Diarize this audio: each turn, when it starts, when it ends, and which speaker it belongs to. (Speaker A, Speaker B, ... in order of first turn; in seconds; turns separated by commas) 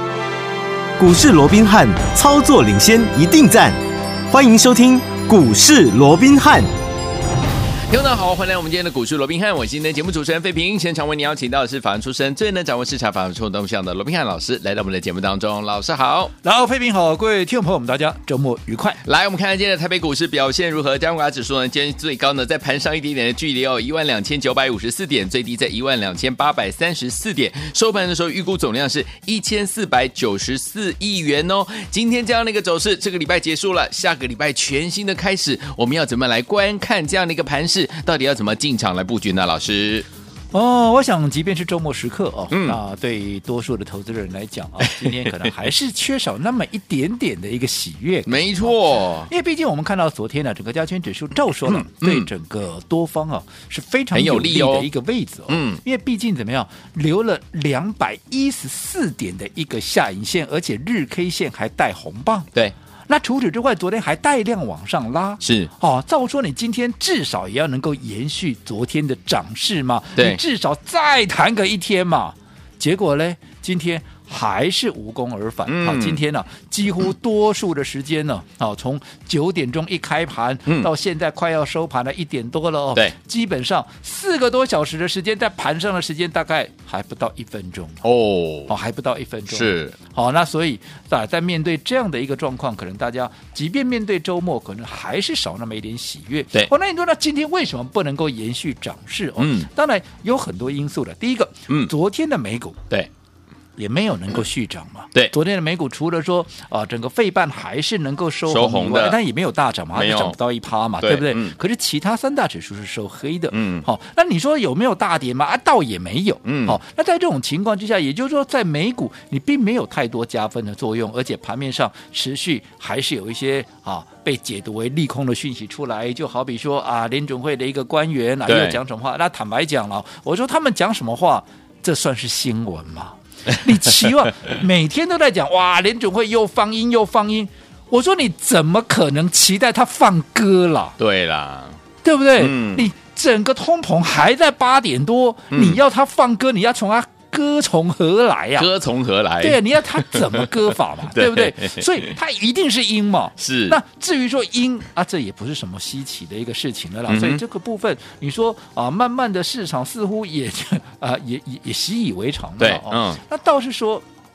Speaker A: 1.0-3.8, Speaker A: 4.3-6.7, Speaker B: 7.9-16.3, Speaker C: 16.4-19.0, Speaker B: 19.0-40.1, Speaker C: 40.5-62.5, Speaker B: 42.5-42.8, Speaker B: 44.9-45.5, Speaker B: 48.2-49.3, Speaker B: 51.6-52.3, Speaker B: 54.1-54.9, Speaker B: 55.5-55.8, Speaker C: 63.1-88.0, Speaker B: 65.4-65.7, Speaker B: 70.2-70.4, Speaker B: 75.7-76.2, Speaker B: 88.0-88.7, Speaker C: 88.7-102.8, Speaker B: 89.5-90.0, Speaker B: 99.4-99.7, Speaker C: 103.8-141.0, Speaker B: 108.5-109.2, Speaker B: 109.9-110.4, Speaker B: 111.0-111.5, Speaker B: 113.5-113.8, Speaker B: 116.4-116.8, Speaker B: 128.4-128.8, Speaker B: 141.0-141.8, Speaker C: 142.0-148.7, Speaker B: 142.3-142.9, Speaker B: 145.5-145.8, Speaker B: 148.6-152.1, Speaker C: 149.4-164.0, Speaker B: 153.4-153.8, Speaker B: 157.1-157.4, Speaker B: 162.6-163.2